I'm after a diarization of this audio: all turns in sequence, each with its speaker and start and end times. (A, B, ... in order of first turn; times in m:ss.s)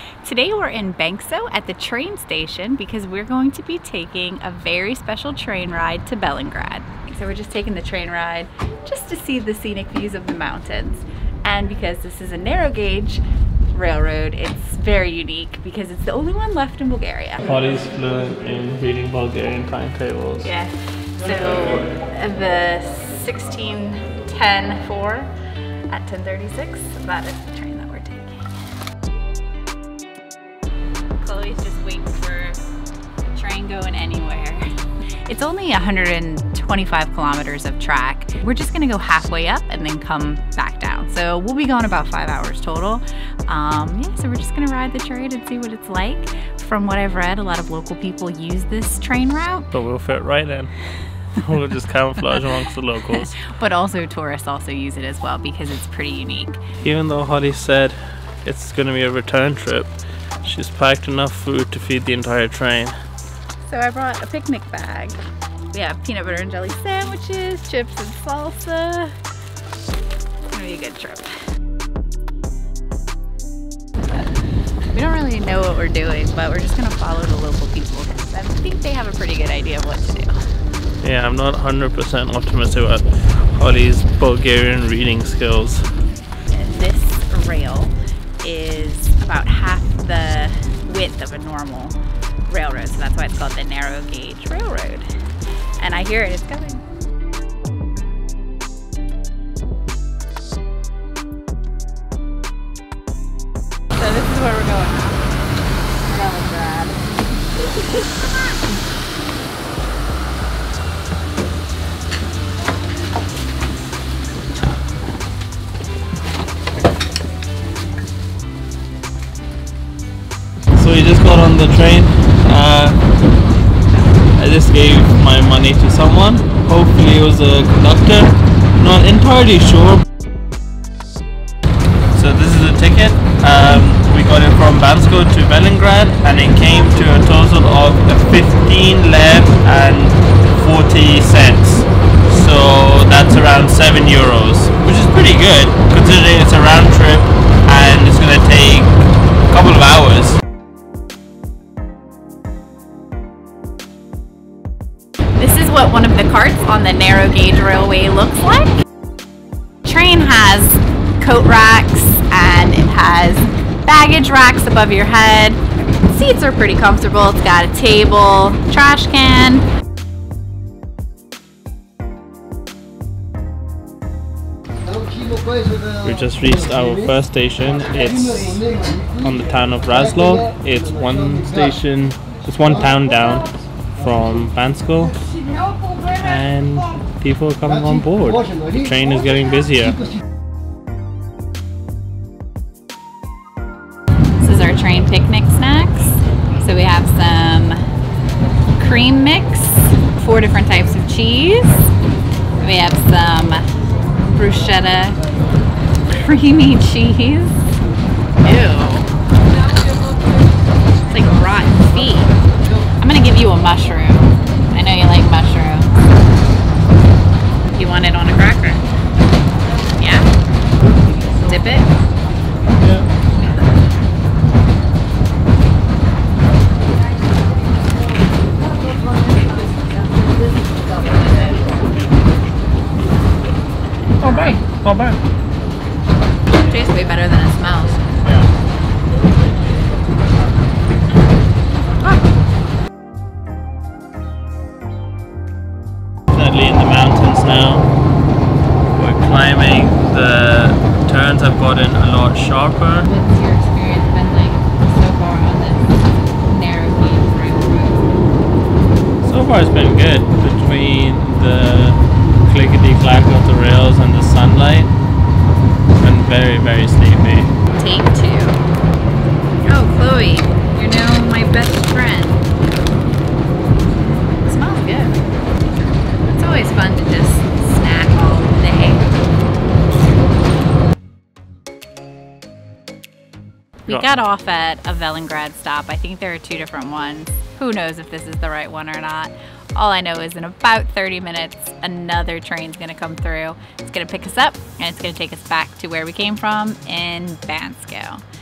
0:00.2-0:17.4 A
0:17.4-0:20.5 B
0:20.4-0:25.3 A
0:25.9-0:28.4 A
0:31.2-0:32.6 A
0:33.3-0:34.6 A
0:35.3-0:49.7 A
0:49.7-0:50.7 B
0:51.3-0:53.4 B
0:53.4-0:56.6 A
0:56.8-0:59.9 B
1:00.4-1:02.9 B
1:03.6-1:05.2 A
1:05.7-1:09.1 A
1:10.5-1:11.3 A
1:14.9-1:20.4 A
1:21.0-1:25.8 B
1:26.5-1:35.0 A
1:35.8-1:36.8 A
1:44.0-1:45.2 A
1:46.1-1:47.0 A
2:00.7-2:03.0 B
2:04.4-2:10.0 B
2:12.1-2:29.0 B
2:29.5-2:30.4 B
2:35.4-2:38.8 A
2:39.8-2:49.6 A
2:56.0-3:05.2 B
3:06.1-3:10.0 B
3:14.4-3:17.8 A
3:18.8-3:21.9 A
3:22.6-3:23.6 A
3:24.3-3:25.2 A
3:26.1-3:27.7 A
3:28.4-3:29.1 A
3:31.1-3:32.3 A
3:33.0-3:35.9 A
3:37.7-3:38.8 A
3:40.0-3:40.3 A
3:41.2-3:41.9 A
3:42.8-3:43.1 B
3:54.2-3:55.2 B
3:54.2-3:54.6 A
3:56.5-3:58.0 A
4:06.3-4:07.9 B
4:08.9-4:13.1 B
4:13.0-4:18.1 A
4:19.2-4:24.9 B
4:26.0-4:27.5 B
4:27.7-4:28.6 A
4:29.6-4:32.5 A
4:34.4-4:35.2 A
4:36.3-4:39.1 A
4:43.9-4:58.2 A